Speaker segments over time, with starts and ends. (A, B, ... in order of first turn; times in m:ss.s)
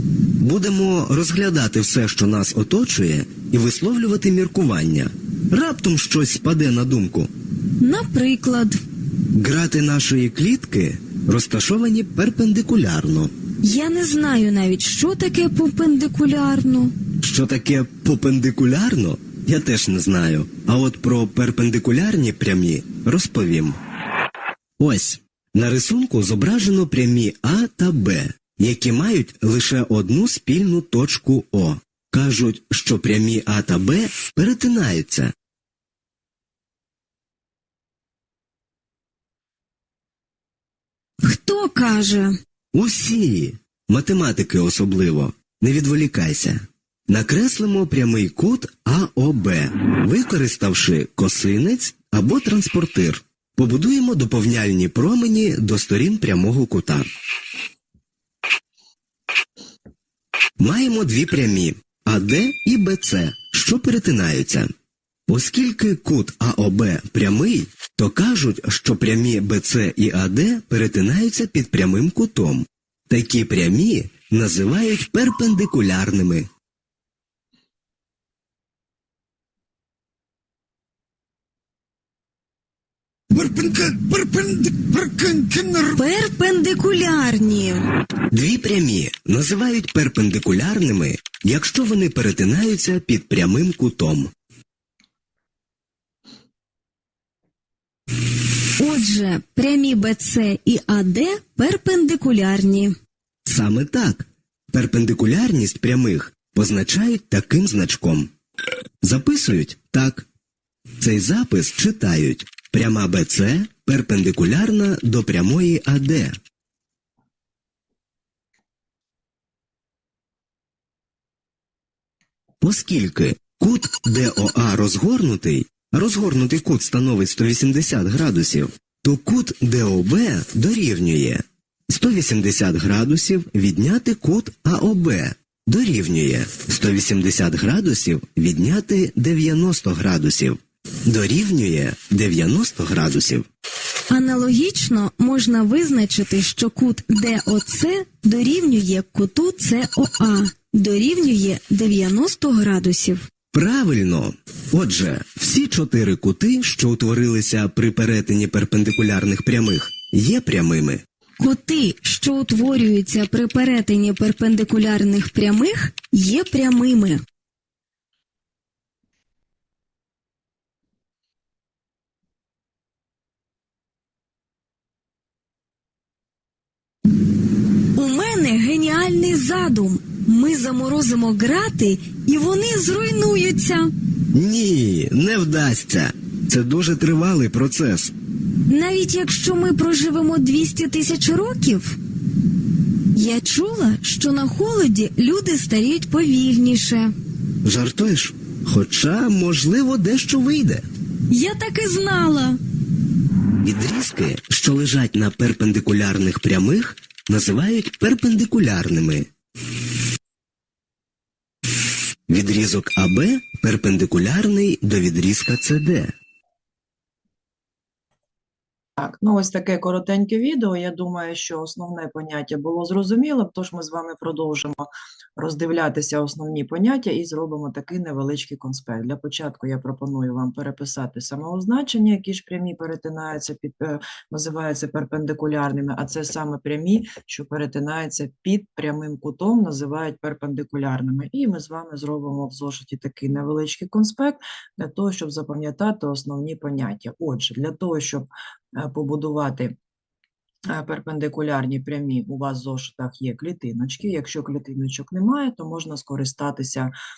0:00.4-0:07.3 A
0:07.8-0:08.8 B
0:09.3-0:13.3 A
0:13.6-0:16.9 B
0:17.2-0:23.8 A
0:24.8-0:35.3 A
0:41.2-0:42.3 B
0:42.7-0:57.1 A
1:00.6-1:04.7 A
1:05.3-1:16.5 A
1:23.3-1:25.8 A
1:25.9-1:27.8 B
1:28.3-1:34.3 A
1:38.8-1:42.9 B
1:43.4-1:48.3 A
1:49.0-1:50.3 A
1:51.0-1:56.3 A
2:02.6-2:23.5 A
2:24.1-2:33.3 B
2:33.5-2:41.0 A
2:41.4-2:47.2 B
2:57.9-3:03.9 B
3:04.3-3:08.1 A
3:08.7-3:12.0 B
3:13.1-3:17.1 B
3:17.6-3:20.8 A
3:21.3-3:22.6 B
3:23.6-3:29.3 A
3:32.3-3:36.1 A
3:39.0-4:09.7 C
4:10.7-4:16.9 C